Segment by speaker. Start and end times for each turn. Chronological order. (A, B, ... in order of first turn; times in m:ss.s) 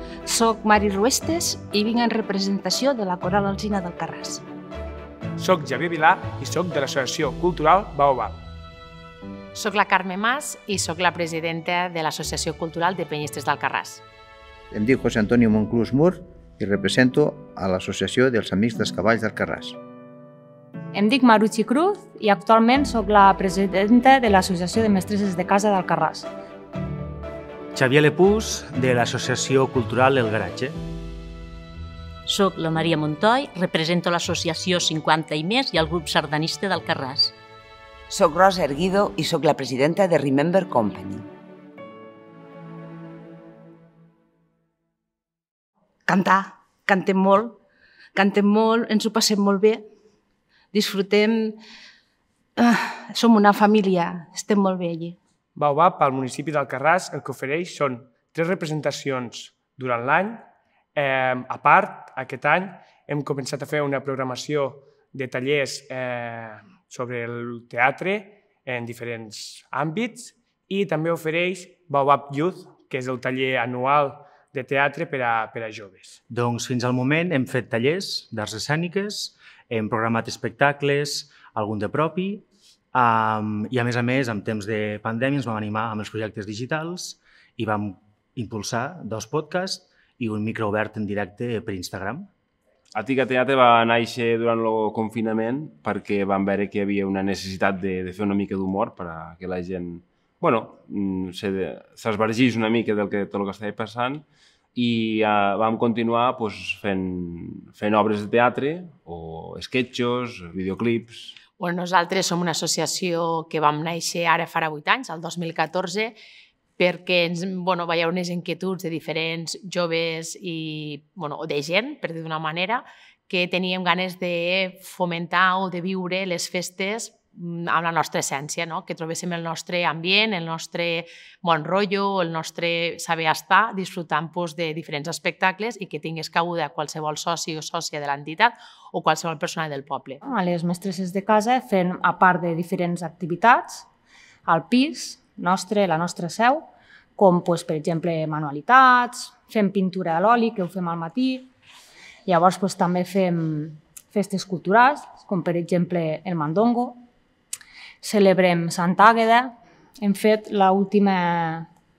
0:00.3-0:04.4 A
0:05.4-0:08.4 B
0:09.6-0:14.0 C
0:14.7-0:19.8 D
0:20.9-0:26.3 E
0:27.7-0:30.8 F
0:32.3-0:37.3 G
0:38.1-0:41.3 H
0:46.1-0:47.6 A
0:48.2-0:49.8 A
0:50.7-0:51.6 A
0:52.6-0:55.2 A
0:55.6-1:00.4 B
1:01.0-1:16.2 B
1:16.3-1:32.3 F
1:32.9-1:51.4 I
1:51.6-1:56.2 C
1:56.8-2:20.2 C
2:20.2-2:23.9 E
2:24.5-2:26.6 E
2:27.2-2:31.5 E
2:32.3-2:37.0 E
2:38.0-2:39.5 E
2:40.0-2:41.7 E